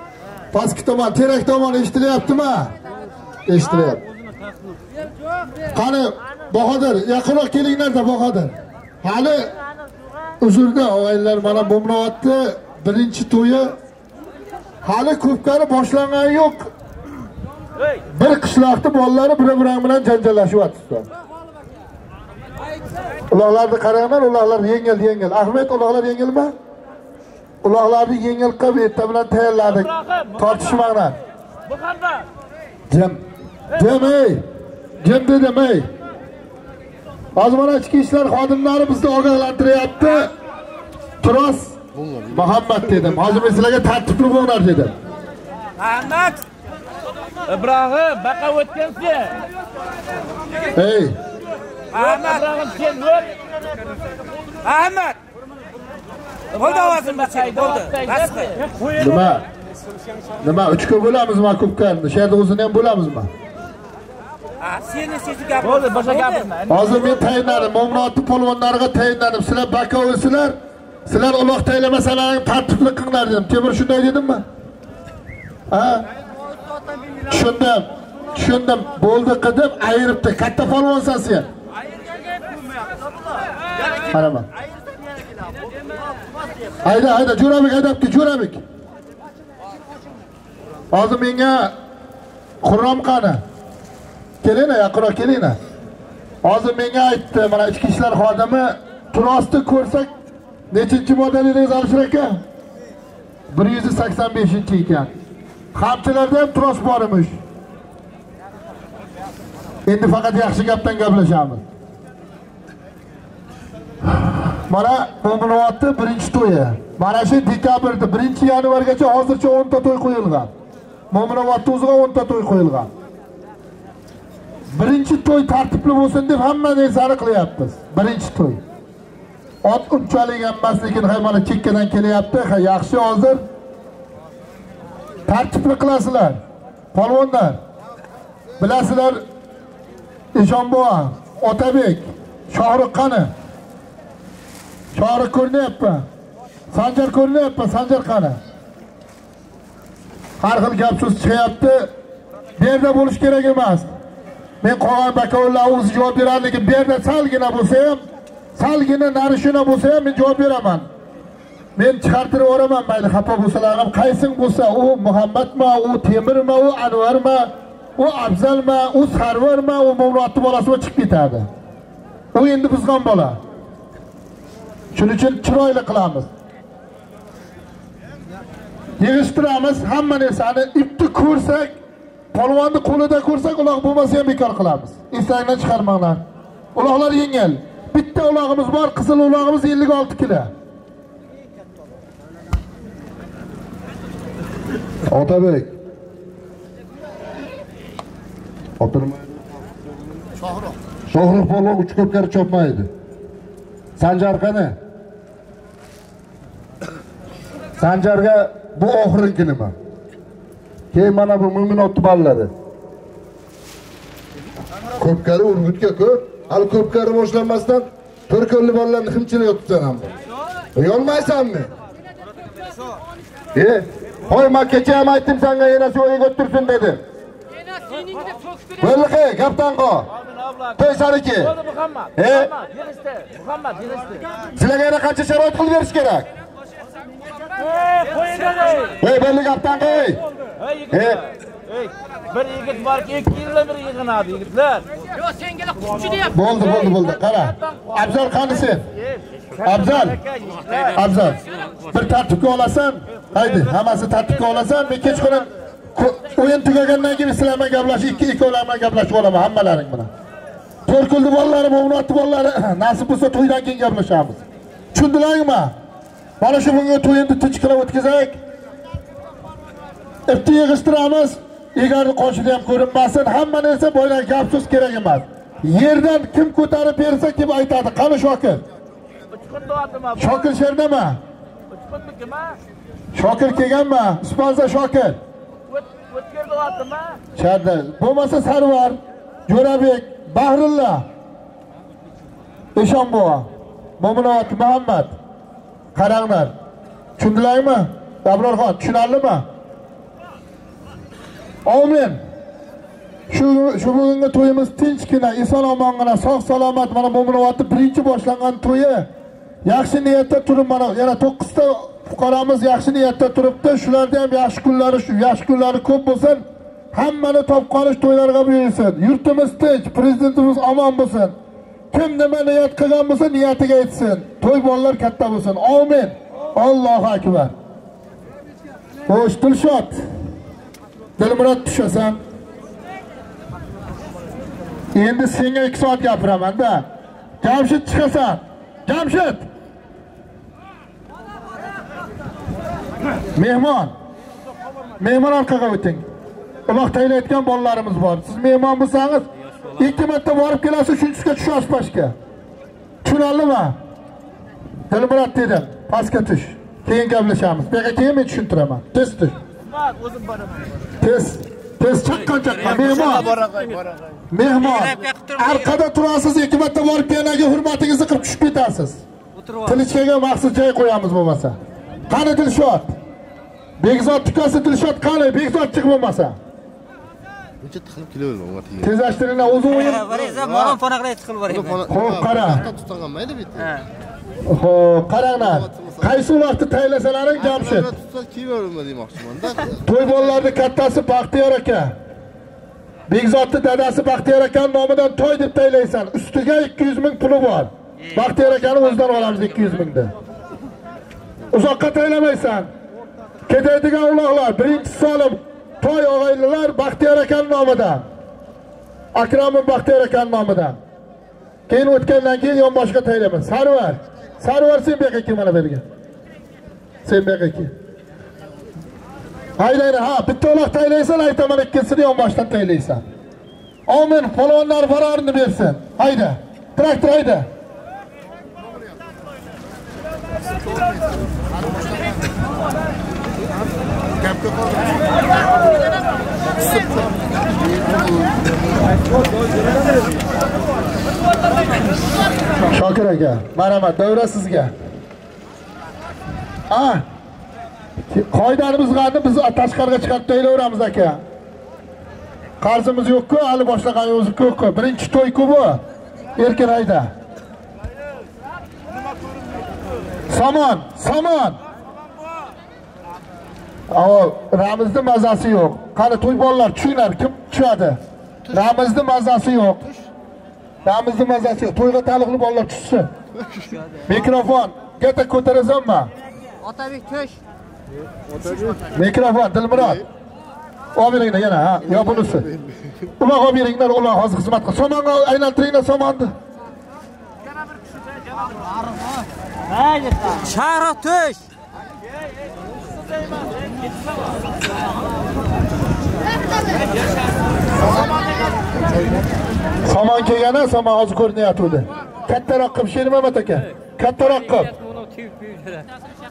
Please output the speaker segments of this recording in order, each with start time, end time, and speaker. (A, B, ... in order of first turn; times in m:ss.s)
0:00.5-0:02.7 A
0:03.5-0:04.0 A
0:05.7-0:09.5 A
0:10.4-0:13.8 A
0:14.8-0:16.7 A
0:18.1-0:21.1 A
0:23.3-0:26.5 A
0:27.6-0:31.2 A
0:31.7-0:32.2 B
0:32.9-0:33.2 A
0:33.7-0:34.4 A
0:35.0-0:35.9 A
0:37.4-0:40.3 A
0:41.2-0:41.8 A
0:41.9-0:42.7 C
0:42.3-0:44.9 A
0:45.8-0:46.4 B
0:47.5-0:49.4 B
0:50.8-0:51.2 A
0:51.9-0:53.3 B
0:54.6-0:55.2 B
0:56.5-0:58.6 B
0:59.0-0:59.4 A
1:00.4-1:03.3 A
1:04.6-1:06.6 B
1:06.7-1:14.4 A
1:15.7-1:16.0 A
1:17.3-1:21.5 A
1:24.1-1:24.5 A
1:26.8-1:28.6 A
1:30.9-1:31.7 A
1:32.6-1:33.4 A
1:34.4-1:35.6 A
1:36.4-1:40.1 A
1:40.7-1:42.4 A
1:43.5-1:45.1 A
1:45.7-1:47.4 A
1:49.8-1:51.6 A
1:54.7-2:00.5 A
2:01.1-2:02.9 A
2:04.7-2:08.6 A
2:09.6-2:13.4 A
2:15.3-2:16.4 A
2:16.9-2:17.6 A
2:18.6-2:19.2 A
2:20.3-2:23.3 A
2:24.9-2:26.0 A
2:26.7-2:28.4 A
2:30.4-2:31.9 A
2:32.6-2:33.9 A
2:34.6-2:38.0 A
2:38.6-2:40.9 A
2:41.8-2:51.5 A
2:52.3-2:53.4 A
2:54.9-2:56.3 A
2:59.0-3:01.8 A
3:02.3-3:06.2 A
3:06.7-3:10.5 A
3:15.1-3:15.7 A
3:18.8-3:19.2 A
3:21.1-3:22.9 A
3:24.0-3:24.8 A
3:27.8-3:29.7 A
3:30.9-3:32.5 A
3:35.0-3:40.1 A
3:40.7-3:41.7 A
3:43.5-3:47.0 A
3:48.8-3:50.1 A
3:50.8-3:51.5 A
3:52.2-3:52.5 A
3:52.6-3:54.2 B
3:54.6-3:56.2 A
3:57.9-3:58.9 B
3:59.0-4:00.2 A
4:00.9-4:01.2 A
4:01.8-4:04.8 B
4:05.8-4:06.2 B
4:06.3-4:08.8 A
4:09.6-4:10.2 A
4:10.4-4:10.9 B
4:10.9-4:20.1 A
4:20.8-4:24.4 A
4:24.9-4:25.7 A
4:26.4-4:28.4 A
4:30.3-4:38.6 A
4:39.4-4:40.3 B
4:40.2-4:41.2 A
4:41.7-4:42.6 B
4:43.1-4:45.2 A
4:45.9-4:47.2 B
4:47.4-4:51.0 A
4:52.8-4:53.5 A
4:54.0-4:55.1 A
4:55.9-4:56.5 A
4:57.2-4:59.5 A
5:01.6-5:02.2 A
5:03.3-5:09.1 A
5:09.6-5:21.4 A
5:21.9-5:27.5 A
5:29.1-5:30.0 A
5:31.2-5:32.2 A
5:34.9-5:36.8 A
5:37.4-5:39.4 A
5:43.4-5:43.9 A
5:45.0-5:46.0 A
5:46.7-5:49.3 A
5:49.8-5:52.2 A
5:53.0-5:53.8 A
5:54.9-5:59.4 A
5:59.8-6:00.4 B
6:01.0-6:03.3 A
6:02.3-6:03.7 D
6:04.3-6:09.0 A
6:04.6-6:05.8 D
6:09.4-6:09.8 D
6:09.6-6:11.6 A
6:12.1-6:12.9 A
6:13.8-6:16.4 A
6:17.6-6:19.0 C
6:18.8-6:20.0 A
6:19.6-6:21.8 D
6:20.0-6:20.8 C
6:21.5-6:23.7 C
6:21.9-6:22.6 A
6:23.6-6:23.8 D
6:24.5-6:27.9 A
6:25.4-6:26.2 C
6:27.4-6:29.8 C
6:29.8-6:31.9 A
6:33.1-6:40.1 A
6:38.1-6:38.5 D
6:41.5-6:42.7 A
6:43.5-6:48.0 A
6:49.1-6:50.8 A
6:51.7-6:55.8 A
6:57.0-6:57.7 A
6:59.6-7:03.0 A
7:03.9-7:07.5 A
7:22.7-7:24.7 A
7:26.7-7:27.0 A
7:28.1-7:31.2 A
7:32.6-7:35.8 A
7:36.4-7:37.1 A
7:40.3-7:41.6 A
7:43.9-7:49.8 A
7:50.8-7:53.1 A
7:53.3-7:53.8 C
7:54.0-7:56.1 A
7:56.6-7:57.1 D
7:56.8-7:57.3 B
7:58.9-8:00.0 A
8:00.9-8:02.5 A
8:01.8-8:03.1 C
8:03.2-8:06.3 A
8:10.3-8:11.4 D
8:19.8-8:24.7 A
8:24.8-8:25.8 D